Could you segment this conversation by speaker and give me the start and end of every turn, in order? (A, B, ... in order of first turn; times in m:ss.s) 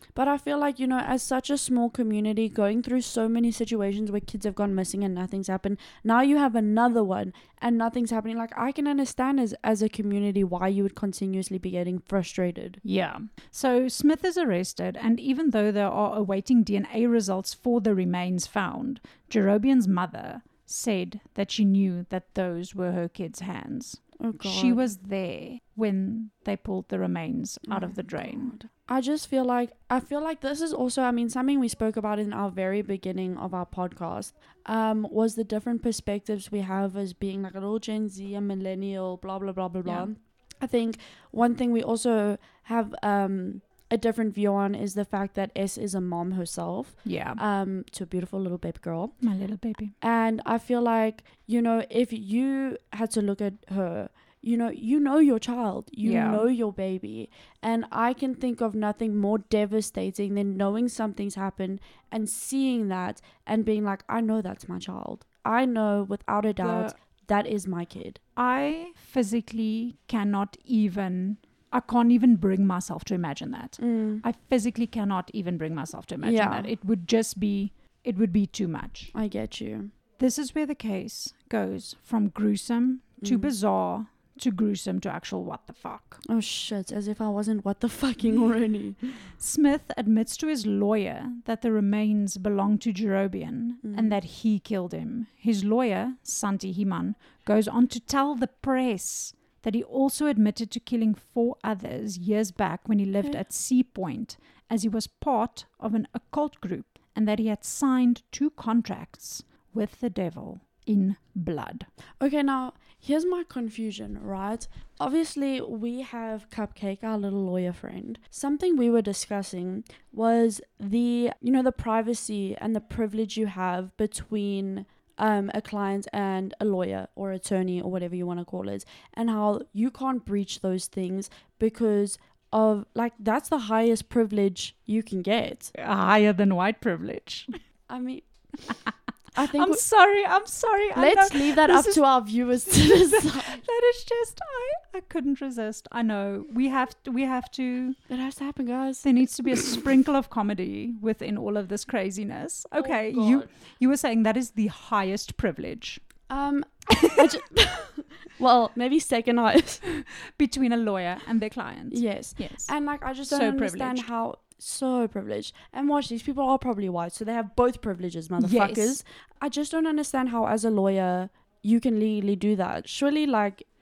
0:00.1-0:12.8 A
0:12.8-0:28.5 B
0:24.2-0:24.9 A
0:27.7-0:49.2 A
0:47.0-0:47.4 B
0:49.2-0:49.9 B
0:50.0-1:08.2 A
0:56.0-0:56.4 B
1:06.6-1:06.9 B
1:08.4-1:19.1 B
1:13.8-1:14.2 A
1:16.2-1:16.7 A
1:19.1-1:19.9 A
1:20.2-1:26.2 B
1:23.2-1:23.5 A
1:26.2-1:29.2 A
1:29.4-1:51.9 B
1:33.8-1:34.2 A
1:52.2-2:15.7 A
2:15.7-2:17.6 B
2:17.9-2:18.2 A
2:18.7-2:22.0 B
2:19.3-2:19.8 A
2:20.9-2:23.6 A
2:22.6-2:28.0 B
2:28.1-2:29.8 A
2:29.0-2:36.0 B
2:32.8-2:33.5 A
2:36.3-2:39.9 A
2:36.9-2:37.3 B
2:39.8-2:42.7 B
2:41.9-2:53.6 A
2:43.3-2:44.1 B
2:48.4-2:49.0 B